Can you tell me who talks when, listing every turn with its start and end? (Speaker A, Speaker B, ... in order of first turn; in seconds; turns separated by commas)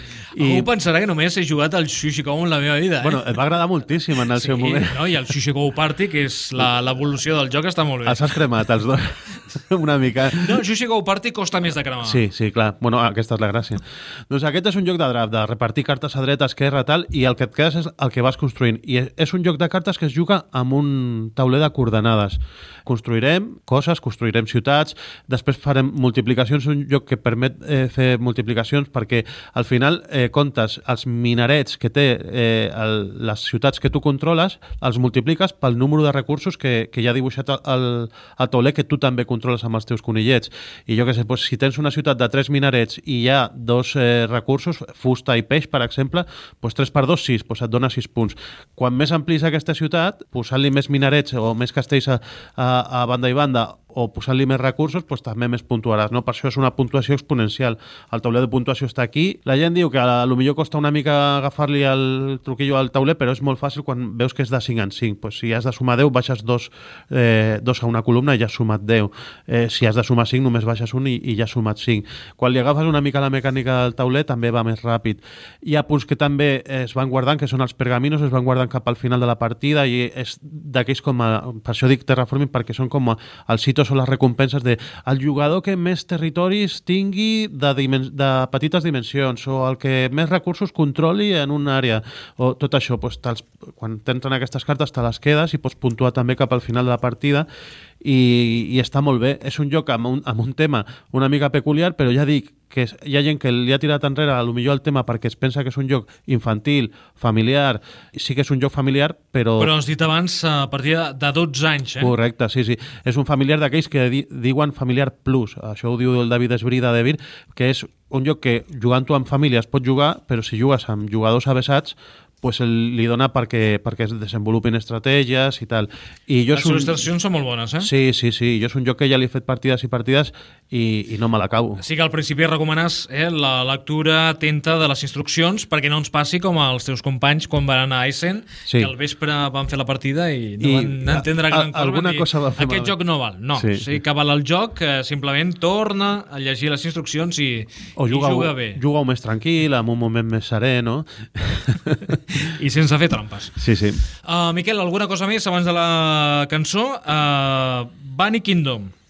Speaker A: 0.3-3.2, Speaker B: 0.3-0.7, Speaker B: 3.0-5.1, Speaker A: 4.2-8.3, Speaker B: 8.0-10.6, Speaker A: 10.3-12.2, Speaker B: 12.0-97.5, Speaker B: 98.0-109.7, Speaker A: 109.6-112.1, Speaker B: 112.0-127.0, Speaker A: 126.5-127.9, Speaker B: 127.8-131.8, Speaker A: 131.8-148.8, Speaker B: 140.6-142.9, Speaker B: 143.6-143.9, Speaker B: 148.0-152.2, Speaker A: 152.1-153.6, Speaker B: 153.6-154.0, Speaker A: 154.2-158.9